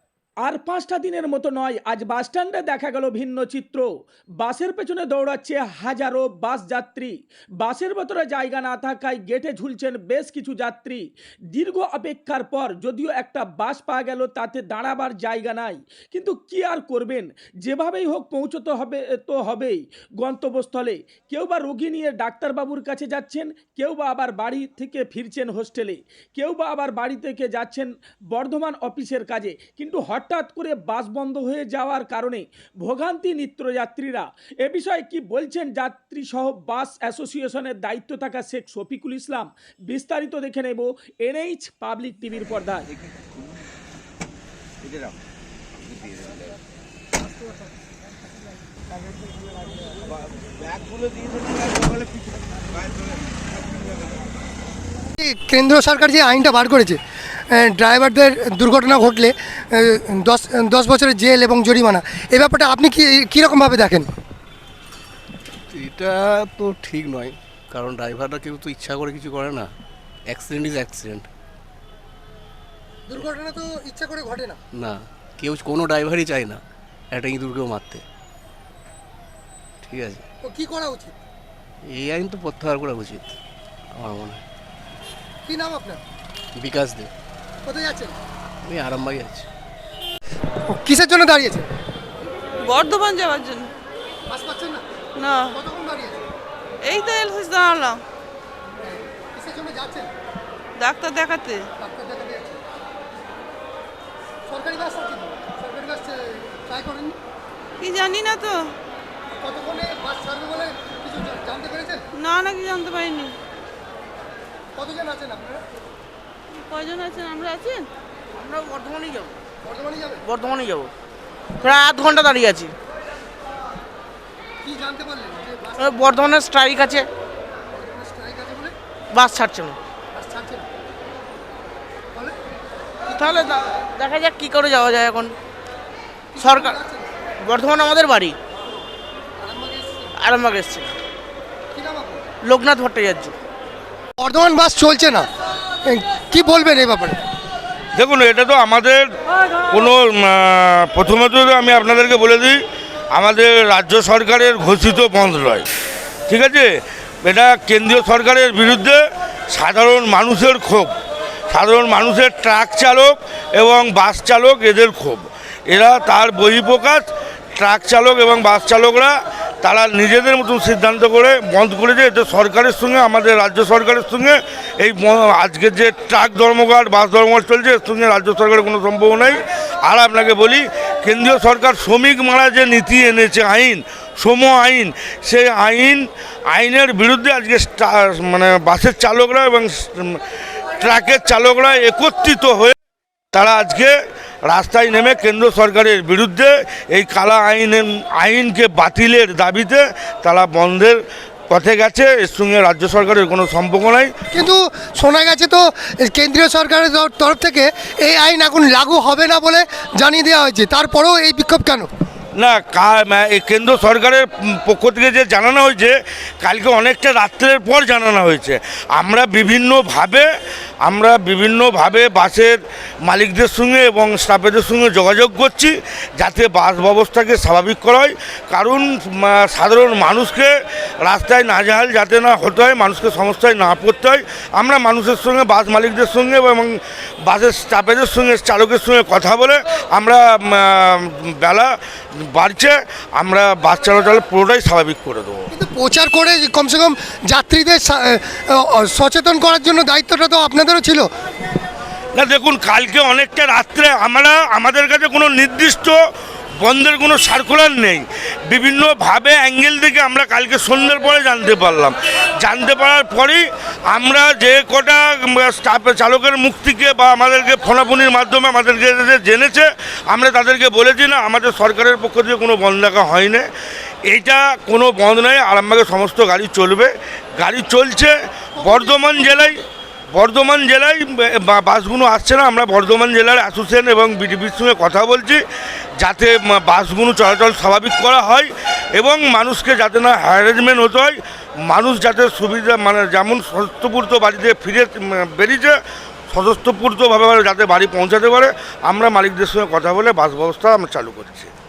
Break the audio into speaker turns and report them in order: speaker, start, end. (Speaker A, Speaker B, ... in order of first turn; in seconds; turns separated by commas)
Speaker A: 0.4-3.9, Speaker A: 4.4-42.9, Speaker B: 55.1-57.0, Speaker B: 57.5-64.1, Speaker C: 65.7-69.7, Speaker C: 70.3-71.3, Speaker B: 73.1-74.6, Speaker C: 74.7-78.0, Speaker C: 79.8-80.3, Speaker B: 80.4-81.1, Speaker C: 81.8-83.4, Speaker C: 83.9-84.4, Speaker B: 85.5-86.0, Speaker C: 86.6-87.1, Speaker B: 87.6-88.2, Speaker C: 88.6-89.5, Speaker B: 90.7-91.7, Speaker D: 92.6-93.7, Speaker B: 94.3-94.8, Speaker D: 95.2-95.6, Speaker B: 95.5-96.3, Speaker D: 96.8-98.0, Speaker B: 99.2-100.1, Speaker D: 100.8-101.7, Speaker B: 101.8-102.6, Speaker B: 104.5-107.2, Speaker D: 107.8-108.7, Speaker B: 109.4-112.1, Speaker D: 112.2-113.4, Speaker B: 114.8-115.6, Speaker D: 116.5-117.9, Speaker E: 118.3-119.4, Speaker B: 119.7-120.2, Speaker E: 120.2-120.9, Speaker E: 121.6-122.7, Speaker B: 124.6-126.0, Speaker E: 125.8-127.1, Speaker B: 127.7-128.7, Speaker E: 129.1-129.8, Speaker B: 130.2-130.7, Speaker B: 133.1-133.6, Speaker E: 133.2-135.3, Speaker B: 136.3-137.1, Speaker E: 136.4-136.8, Speaker E: 137.4-138.4, Speaker B: 139.4-140.1, Speaker E: 140.2-140.9, Speaker B: 141.7-142.2, Speaker E: 142.4-143.3, Speaker B: 144.2-145.3, Speaker B: 145.8-147.2, Speaker F: 147.9-149.1, Speaker F: 149.7-152.6, Speaker F: 153.1-155.7, Speaker F: 156.3-156.7, Speaker F: 157.2-160.9, Speaker F: 161.5-190.2, Speaker F: 190.8-192.8, Speaker F: 193.3-193.9, Speaker F: 194.5-201.0, Speaker F: 201.5-204.1, Speaker B: 204.3-211.9, Speaker F: 212.4-220.3, Speaker F: 220.8-230.5, Speaker F: 231.1-245.5, Speaker B: 245.5-251.1, Speaker F: 252.2-256.0, Speaker F: 256.6-273.5, Speaker F: 274.1-279.6, Speaker B: 278.6-279.5, Speaker F: 280.1-285.4, Speaker F: 286.0-295.8, Speaker F: 296.3-301.5